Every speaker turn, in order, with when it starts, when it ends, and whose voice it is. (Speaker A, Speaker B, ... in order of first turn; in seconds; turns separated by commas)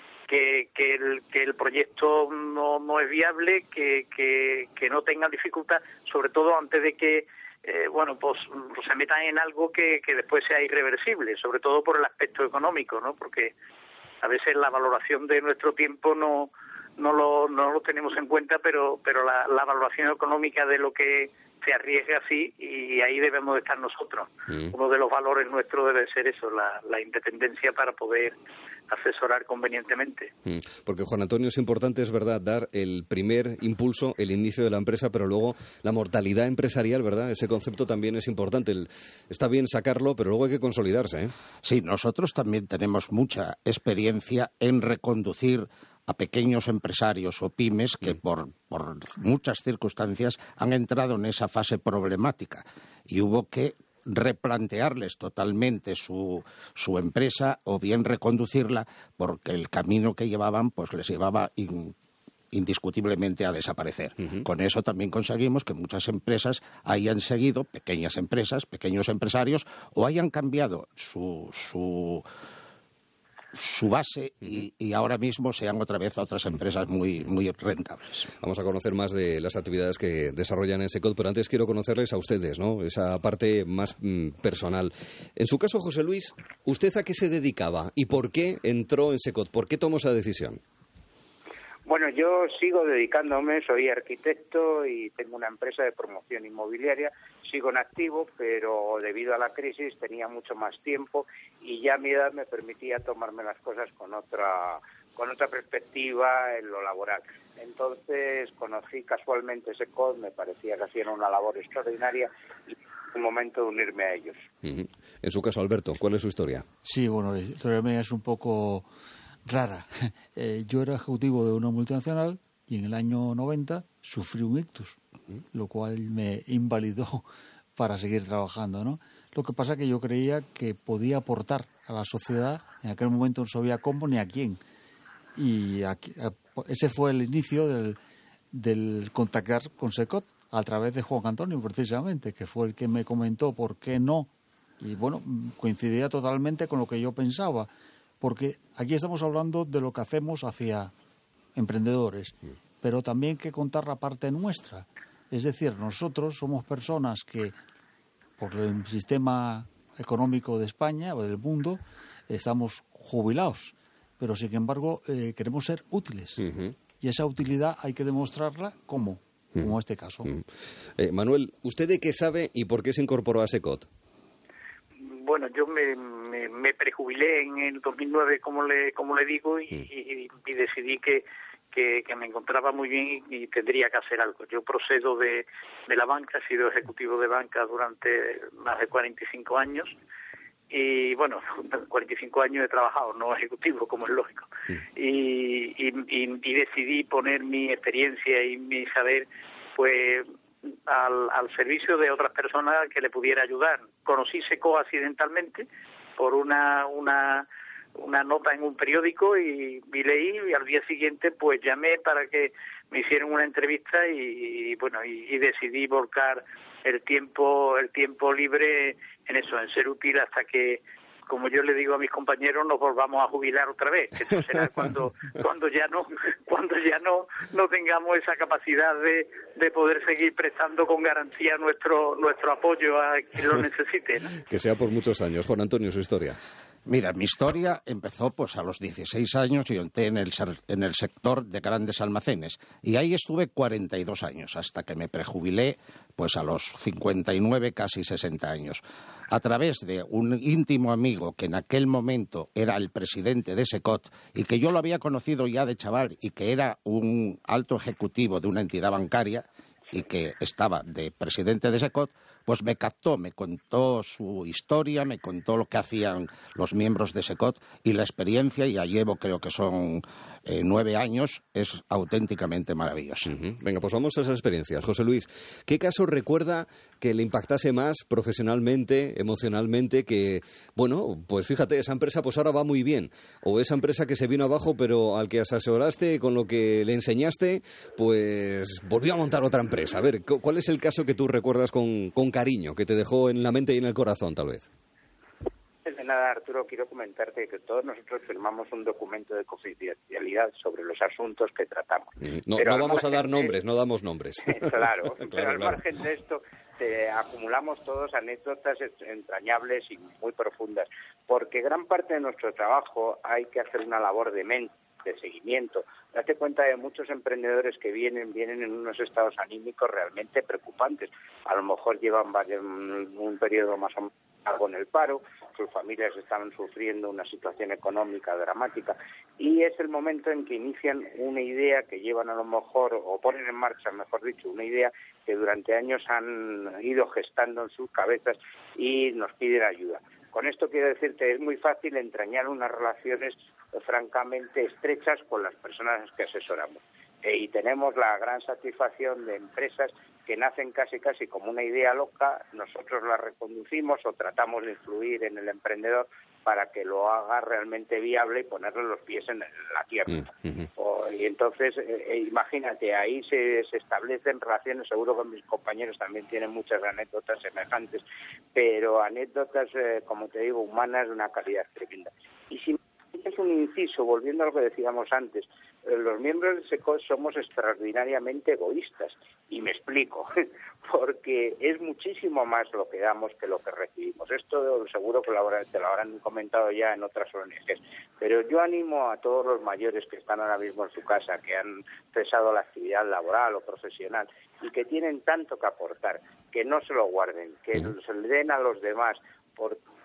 Speaker A: 0.3-13.5, Speaker A: 14.2-28.3, Speaker A: 28.9-30.3, Speaker B: 30.4-41.3, Speaker C: 41.6-61.9, Speaker C: 62.5-72.2, Speaker C: 73.5-78.3, Speaker B: 78.4-90.6, Speaker D: 91.8-114.5, Speaker B: 114.6-116.6, Speaker E: 116.8-118.9, Speaker E: 119.5-125.0, Speaker E: 125.5-127.2, Speaker E: 127.8-134.6, Speaker E: 135.3-138.0, Speaker E: 138.5-150.9, Speaker E: 151.6-157.5, Speaker E: 158.4-166.4, Speaker B: 166.4-166.7, Speaker E: 167.0-170.3, Speaker B: 171.0-173.9, Speaker A: 175.0-189.9, Speaker A: 190.7-200.3, Speaker A: 200.9-205.7, Speaker A: 206.2-207.4, Speaker A: 208.0-234.3, Speaker B: 234.4-236.4, Speaker C: 236.8-248.8, Speaker C: 249.3-273.3, Speaker B: 273.3-294.7, Speaker D: 295.8-303.5, Speaker B: 302.2-305.8, Speaker D: 304.5-368.0, Speaker B: 360.1-360.7, Speaker D: 368.5-380.3, Speaker D: 380.8-399.8